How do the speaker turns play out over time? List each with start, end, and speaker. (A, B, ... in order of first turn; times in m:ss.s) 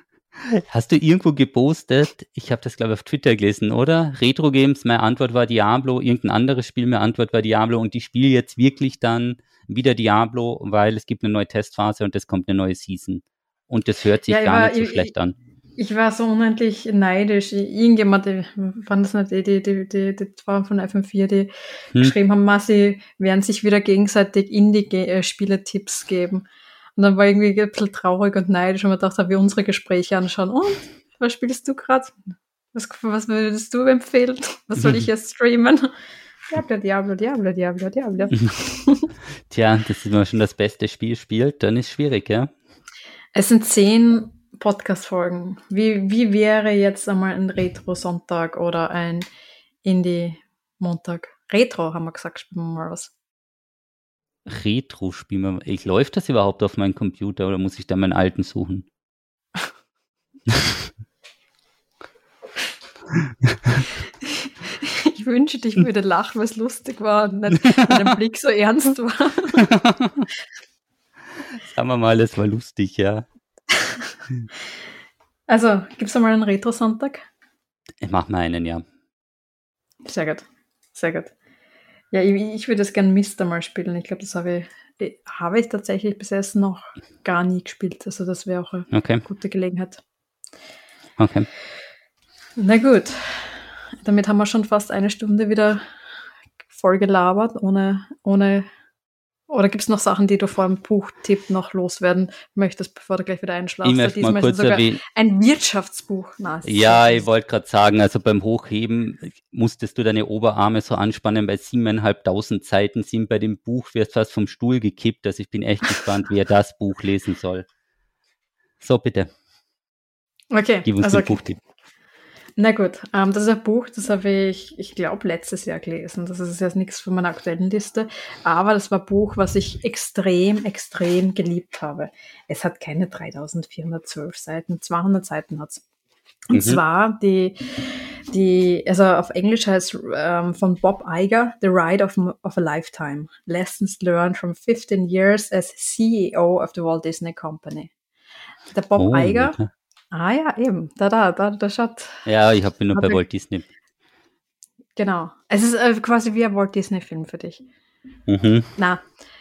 0:00.4-0:15.4 A
0:14.3-0:15.1 B
0:15.8-0:26.4 B
0:27.0-0:32.2 B
0:32.7-0:35.9 B
0:34.8-0:35.1 A
0:36.5-0:39.1 B
0:39.5-0:42.5 A
0:43.3-0:49.2 B
0:49.8-0:53.1 B
0:54.4-0:58.9 A
1:03.5-1:03.8 A
1:04.2-1:09.7 B
1:09.6-1:10.2 A
1:11.6-1:13.3 A
1:15.5-1:17.3 B
1:18.0-1:18.8 A
1:20.0-1:21.3 B
1:22.1-1:30.0 B
1:28.9-1:29.2 A
1:31.2-1:31.5 A
1:32.6-1:35.8 B
1:36.7-1:38.7 B
1:39.5-1:47.2 B
1:43.8-1:45.0 A
1:46.6-1:57.6 A
1:58.8-1:59.3 A
2:00.5-2:01.4 B
2:00.8-2:01.6 A
2:02.6-2:15.8 B
2:16.5-2:27.9 B
2:16.5-2:16.8 A
2:28.7-2:29.6 B
2:29.0-2:29.7 A
2:30.1-2:32.2 B
2:32.2-2:33.6 A
2:32.9-2:33.2 B
2:35.0-2:37.6 B
2:38.3-2:38.7 A
2:38.8-2:39.0 B